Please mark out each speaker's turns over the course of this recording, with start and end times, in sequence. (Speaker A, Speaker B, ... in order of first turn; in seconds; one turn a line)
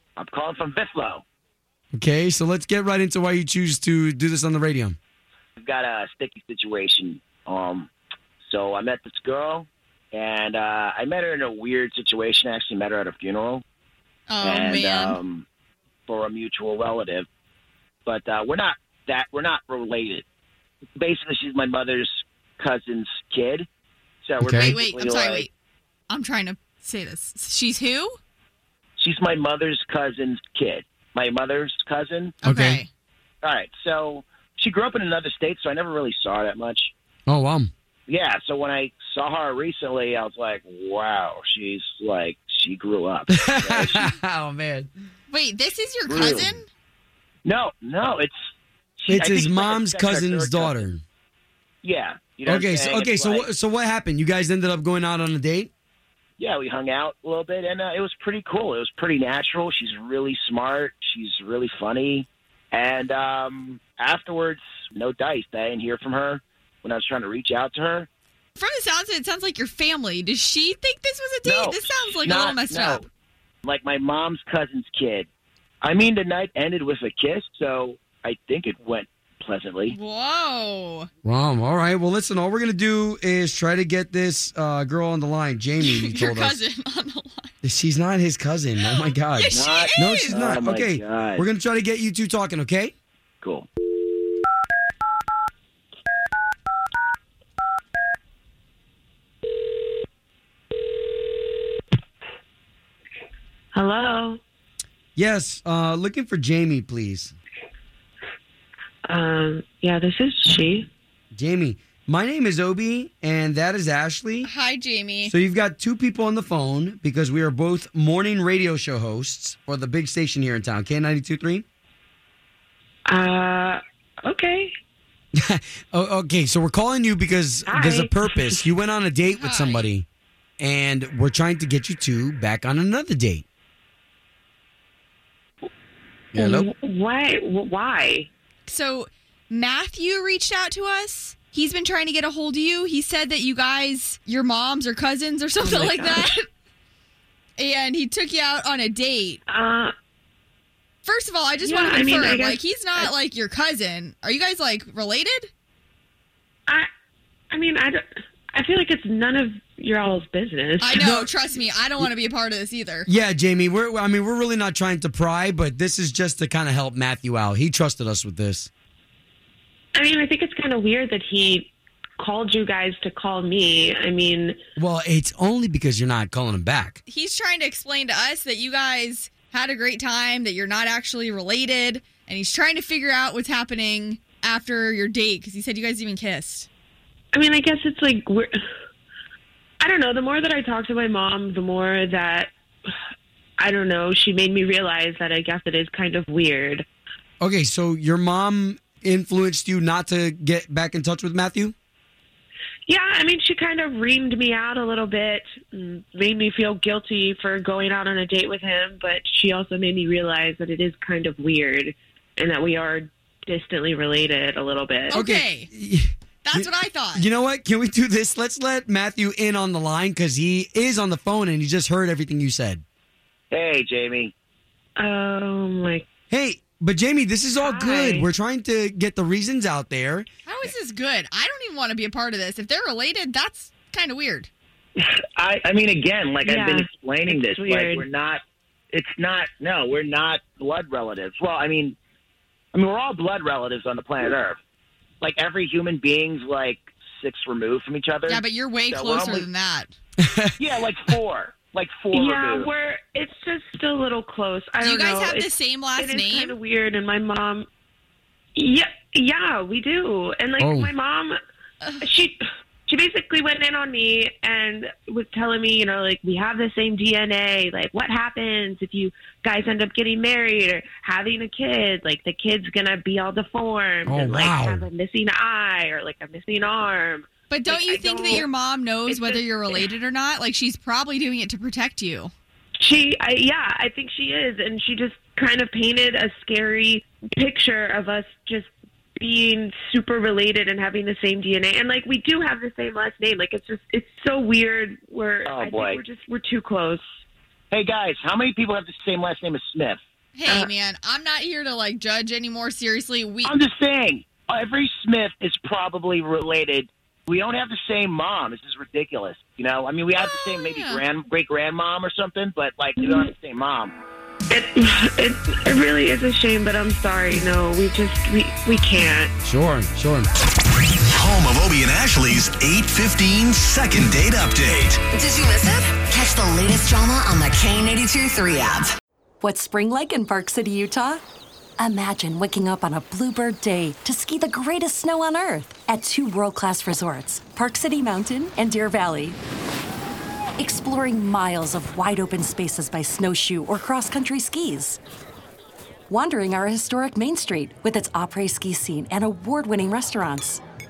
Speaker A: 0.2-1.2
Speaker B: 1.9-5.0
Speaker A: 5.6-7.9
Speaker A: 8.4-13.6
Speaker C: 14.3-15.2
Speaker A: 14.4-15.4
Speaker A: 16.1-17.3
Speaker A: 18.1-20.2
Speaker A: 21.0-23.7
Speaker A: 24.2-25.5
Speaker B: 24.4-24.8
Speaker C: 24.4-25.5
Speaker C: 26.1-28.2
Speaker A: 29.0-32.4
Speaker C: 32.4-32.9
Speaker B: 32.4-32.8
Speaker A: 33.4-36.9
Speaker B: 37.3-37.7
Speaker A: 38.1-44.1
Speaker B: 43.3-44.9
Speaker C: 45.3-46.7
Speaker A: 46.1-46.5
Speaker B: 46.1-46.6
Speaker A: 47.5-48.3
Speaker A: 49.0-50.9
Speaker B: 49.1-51.0
Speaker A: 51.8-53.5
Speaker B: 52.5-55.7
Speaker A: 56.4-68.1
Speaker C: 68.6-73.0
Speaker A: 71.5-73.0
Speaker A: 73.6-75.3
Speaker A: 75.8-80.0
Speaker C: 79.9-81.1
Speaker B: 81.2-86.6
Speaker C: 85.8-87.5
Speaker B: 87.6-92.9
Speaker C: 88.8-90.4
Speaker A: 89.5-91.4
Speaker A: 93.4-93.7
Speaker D: 103.7-104.4
Speaker B: 105.2-107.3
Speaker D: 109.1-110.9
Speaker B: 111.3-114.5
Speaker C: 114.4-115.3
Speaker B: 115.2-121.6
Speaker D: 123.1-124.7
Speaker B: 125.3-130.1
Speaker D: 127.7-128.7
Speaker C: 129.3-129.9
Speaker B: 130.6-133.4
Speaker B: 136.3-136.7
Speaker D: 136.4-138.3
Speaker C: 138.7-146.4
Speaker D: 145.6-146.4
Speaker C: 147.6-149.4
Speaker D: 149.5-149.9
Speaker C: 151.1-155.5
Speaker D: 151.6-152.6
Speaker D: 157.5-161.0
Speaker C: 160.8-163.1
Speaker B: 160.9-161.3
Speaker B: 163.1-168.7
Speaker D: 169.9-174.6
Speaker B: 174.8-177.0
Speaker C: 177.1-186.7
Speaker D: 187.3-188.5
Speaker D: 189.8-192.5
Speaker D: 193.6-196.9
Speaker B: 197.4-201.7
Speaker D: 202.9-215.2
Speaker C: 215.1-215.7
Speaker B: 215.2-222.8
Speaker C: 216.4-217.2
Speaker A: 223.5-224.3
Speaker D: 225.0-226.0
Speaker B: 226.3-230.7
Speaker D: 227.6-228.3
Speaker C: 230.5-234.5
Speaker A: 235.0-238.4
Speaker D: 236.4-238.1
Speaker A: 238.9-242.0
Speaker A: 242.7-244.6
Speaker A: 245.2-249.5
Speaker C: 248.3-249.9
Speaker B: 250.2-250.6
Speaker A: 250.6-252.7
Speaker D: 252.1-257.7
Speaker C: 254.8-256.6
Speaker D: 258.6-261.4
Speaker B: 260.6-260.9
Speaker D: 262.0-278.5
Speaker B: 274.1-274.9
Speaker C: 277.5-282.3
Speaker D: 279.1-279.9
Speaker D: 282.8-297.0
Speaker A: 295.5-296.0
Speaker A: 297.7-300.0
Speaker C: 300.4-303.6
Speaker A: 303.4-313.9
Speaker C: 310.1-311.0
Speaker D: 313.0-313.3
Speaker D: 314.5-319.3
Speaker B: 319.4-320.3
Speaker E: 321.1-325.0
Speaker F: 325.1-328.9
Speaker G: 329.4-331.2
Speaker G: 331.8-339.4
Speaker G: 340.6-345.0
Speaker G: 346.1-350.6